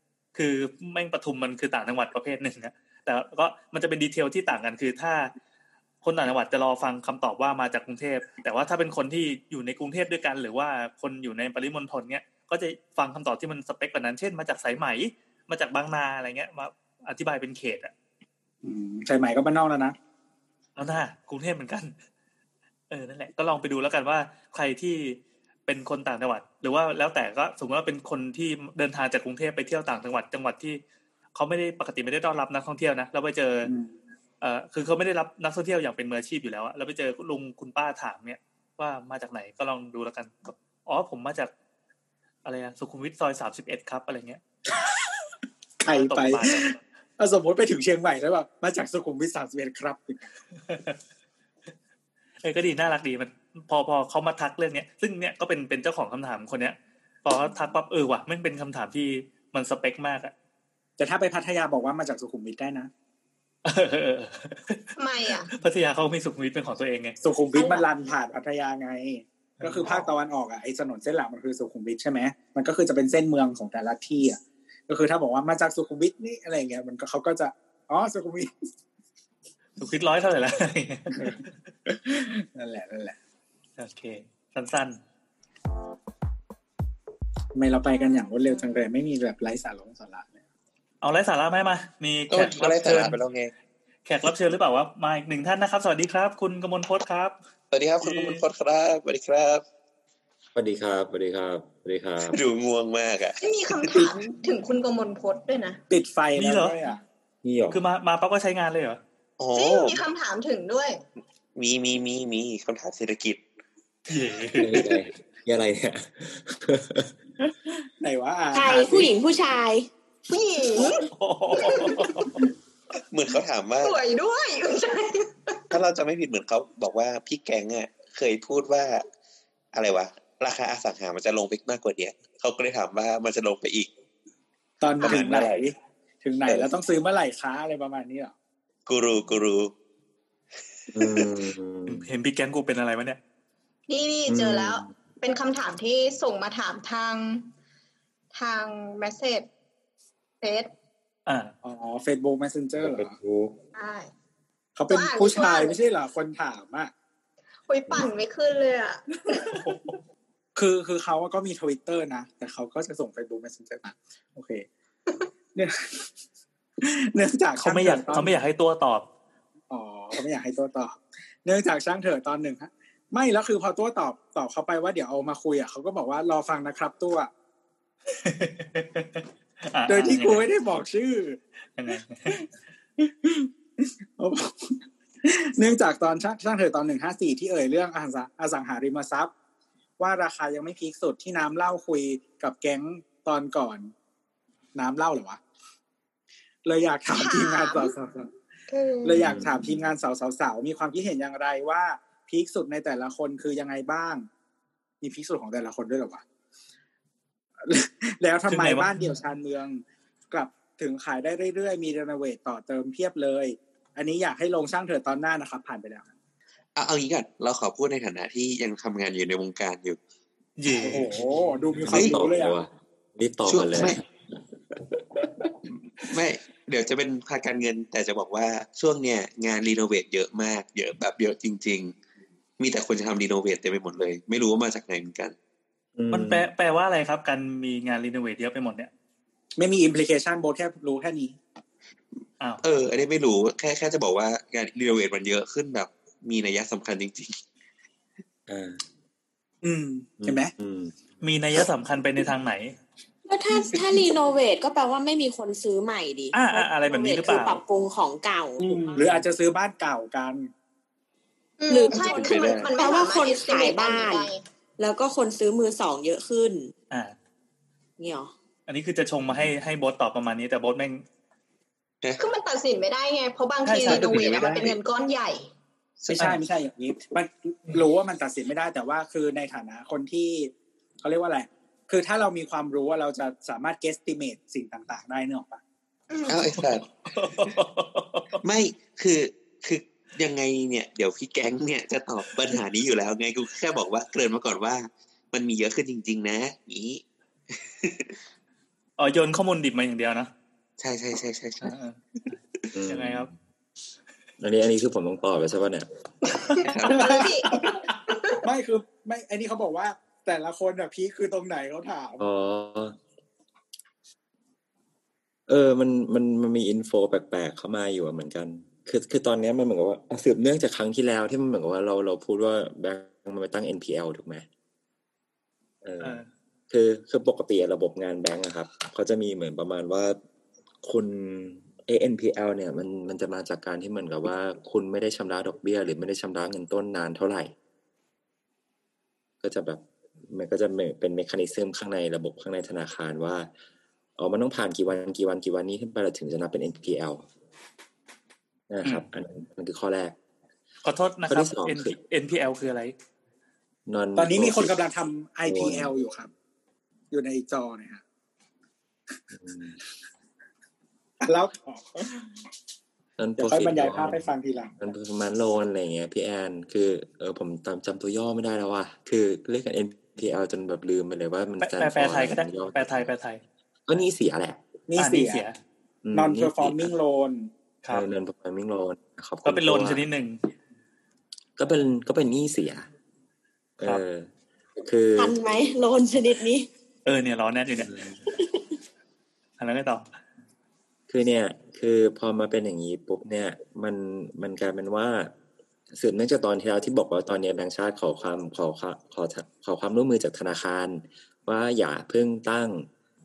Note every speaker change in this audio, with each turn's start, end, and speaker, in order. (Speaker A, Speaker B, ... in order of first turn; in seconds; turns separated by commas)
Speaker A: 0.3-5.3, Speaker A: 6.0-17.9, Speaker B: 18.6-19.9, Speaker A: 20.8-21.9, Speaker A: 22.9-30.8, Speaker A: 31.4-33.7, Speaker B: 33.6-33.9, Speaker A: 34.4-41.5, Speaker A: 42.4-44.4, Speaker B: 45.8-50.3, Speaker A: 45.9-46.8, Speaker A: 50.7-50.9, Speaker A: 52.4-60.3, Speaker B: 61.0-62.9, Speaker A: 63.6-67.2, Speaker C: 65.0-65.5, Speaker B: 67.2-78.5, Speaker C: 67.5-67.9, Speaker A: 69.6-70.0, Speaker A: 79.8-81.5, Speaker B: 81.1-83.2, Speaker A: 83.8-85.0, Speaker B: 87.5-90.3, Speaker A: 91.0-93.2, Speaker D: 92.3-93.5, Speaker A: 94.1-97.4, Speaker D: 97.7-99.6, Speaker A: 98.0-98.4, Speaker E: 100.5-102.4, Speaker D: 102.3-104.1, Speaker C: 103.4-105.8, Speaker B: 105.9-107.0, Speaker A: 106.4-106.8, Speaker E: 107.4-107.8, Speaker A: 107.7-109.0, Speaker D: 109.4-110.0, Speaker C: 109.5-111.0, Speaker D: 111.6-113.4, Speaker A: 114.1-114.9, Speaker E: 114.6-117.5, Speaker B: 118.0-119.1, Speaker F: 118.5-119.9, Speaker C: 120.3-122.0, Speaker A: 121.0-122.4, Speaker D: 123.1-124.0, Speaker C: 123.8-125.6, Speaker D: 125.7-129.1, Speaker D: 129.7-133.9, Speaker B: 134.8-138.3, Speaker D: 135.0-135.6, Speaker D: 138.9-139.7, Speaker E: 140.9-142.1, Speaker D: 141.0-141.3, Speaker A: 141.9-143.2, Speaker C: 143.9-147.5, Speaker E: 144.3-144.9, Speaker C: 148.3-149.5, Speaker C: 150.4-150.7, Speaker A: 151.2-151.5, Speaker B: 151.6-153.1, Speaker E: 152.8-153.6, Speaker C: 153.7-154.1, Speaker B: 154.8-156.9, Speaker C: 154.9-155.7, Speaker C: 157.7-159.6, Speaker B: 160.6-164.7, Speaker B: 165.6-166.1, Speaker B: 166.8-168.4, Speaker A: 167.6-169.1, Speaker B: 169.7-177.3, Speaker A: 178.2-180.5, Speaker B: 179.9-181.4, Speaker A: 181.8-182.4, Speaker B: 181.9-182.4, Speaker B: 183.0-189.3, Speaker B: 190.0-193.9, Speaker B: 194.7-195.4, Speaker B: 196.7-198.3, Speaker C: 197.2-197.9, Speaker C: 198.7-199.2, Speaker B: 199.1-204.3, Speaker E: 199.1-199.9, Speaker B: 205.0-206.2, Speaker B: 207.6-216.1, Speaker A: 208.5-209.0, Speaker D: 216.8-220.0, Speaker A: 220.6-221.9, Speaker B: 220.8-222.6, Speaker D: 221.9-222.2, Speaker E: 221.9-224.1, Speaker D: 223.5-224.0, Speaker E: 224.7-226.1, Speaker D: 226.0-231.9, Speaker D: 232.6-235.3, Speaker E: 235.9-236.5, Speaker A: 236.1-238.9, Speaker B: 239.6-241.4, Speaker D: 242.6-247.4, Speaker E: 248.5-248.8, Speaker B: 249.6-250.5, Speaker E: 250.2-251.0, Speaker A: 251.2-252.8, Speaker F: 253.2-258.8, Speaker A: 256.3-257.6, Speaker D: 258.6-259.1, Speaker B: 258.9-260.5, Speaker A: 259.0-259.2, Speaker C: 261.6-264.4, Speaker F: 261.7-266.7, Speaker D: 261.9-262.7, Speaker F: 268.0-268.3, Speaker A: 268.7-271.0, Speaker C: 272.2-275.5, Speaker A: 273.6-274.8, Speaker D: 273.9-274.6, Speaker D: 276.0-276.3, Speaker B: 276.1-285.6, Speaker C: 286.1-286.4, Speaker D: 286.2-287.6, Speaker A: 287.1-288.4, Speaker D: 288.4-298.1, Speaker A: 299.0-300.3, Speaker D: 300.8-302.6, Speaker A: 301.6-302.0, Speaker E: 302.7-303.4, Speaker A: 302.9-303.3, Speaker E: 304.4-305.9, Speaker C: 306.4-308.4, Speaker D: 306.6-307.3, Speaker B: 306.9-312.2, Speaker E: 312.2-313.0, Speaker E: 315.5-324.4, Speaker E: 325.8-330.2, Speaker A: 326.0-326.3, Speaker E: 330.8-337.5, Speaker E: 339.4-343.5, Speaker E: 344.2-347.2, Speaker E: 348.7-350.2, Speaker A: 350.8-352.9, Speaker E: 351.3-351.9, Speaker E: 353.9-354.7, Speaker B: 354.1-356.3, Speaker E: 355.4-355.9, Speaker B: 357.1-358.0, Speaker E: 359.3-359.8, Speaker B: 361.2-362.4, Speaker E: 363.2-373.1, Speaker B: 363.4-364.8, Speaker A: 371.6-373.4, Speaker E: 373.9-374.6, Speaker B: 374.9-375.4, Speaker A: 375.0-375.6, Speaker E: 376.0-376.9, Speaker B: 376.1-377.5, Speaker E: 377.9-380.1, Speaker A: 379.4-380.4, Speaker E: 381.6-382.9, Speaker E: 383.8-385.4, Speaker F: 385.1-386.7, Speaker A: 387.1-387.9, Speaker E: 387.8-388.3, Speaker F: 388.4-388.7, Speaker A: 389.6-390.1, Speaker E: 391.1-395.3, Speaker E: 395.9-402.9